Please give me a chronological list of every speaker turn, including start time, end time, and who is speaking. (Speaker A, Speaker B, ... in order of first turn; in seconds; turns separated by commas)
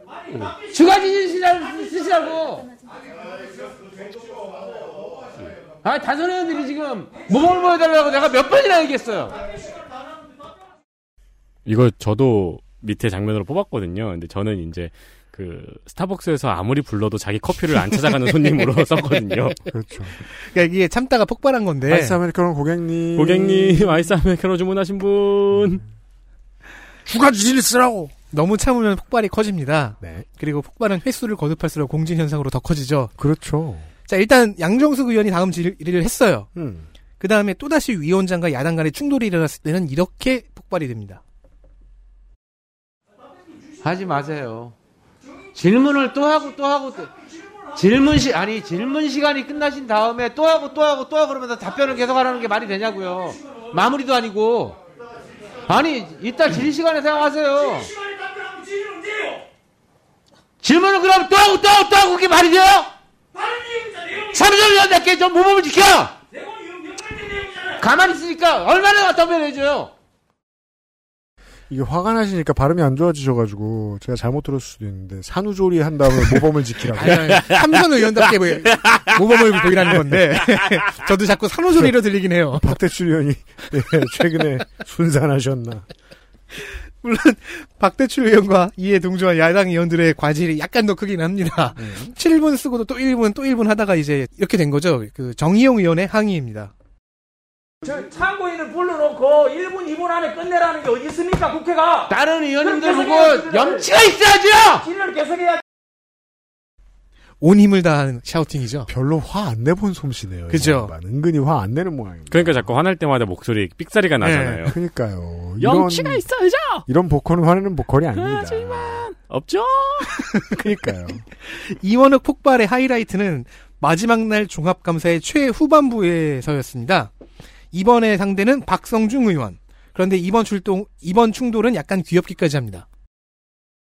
Speaker A: 0.3-2.7, Speaker A: 5.8-9.4, Speaker B: 11.7-19.6, Speaker C: 19.7-20.2, Speaker D: 20.3-22.2, Speaker C: 21.9-24.0, Speaker B: 23.1-25.8, Speaker C: 27.1-28.1, Speaker D: 28.3-33.1, Speaker C: 33.2-33.9, Speaker D: 34.1-36.5, Speaker C: 36.5-36.9, Speaker D: 37.2-41.2, Speaker A: 43.8-44.7, Speaker A: 45.5-47.1, Speaker A: 47.7-54.8, Speaker A: 55.7-57.9, Speaker A: 60.6-62.9, Speaker A: 64.1-66.2, Speaker A: 67.7-69.9, Speaker C: 71.7-77.6, Speaker D: 76.9-82.8, Speaker C: 82.6-85.8, Speaker D: 87.0-96.7, Speaker C: 91.8-92.1, Speaker E: 97.8-102.1, Speaker A: 102.1-104.9, Speaker E: 102.6-103.8, Speaker E: 104.8-105.6, Speaker D: 107.4-108.9, Speaker C: 108.9-112.6, Speaker D: 110.5-110.9, Speaker B: 112.3-114.7, Speaker D: 114.2-114.6, Speaker C: 114.6-116.2, Speaker B: 115.6-116.8, Speaker C: 116.9-119.0, Speaker B: 118.2-120.4, Speaker C: 120.5-121.2, Speaker D: 121.4-127.1, Speaker D: 127.7-132.9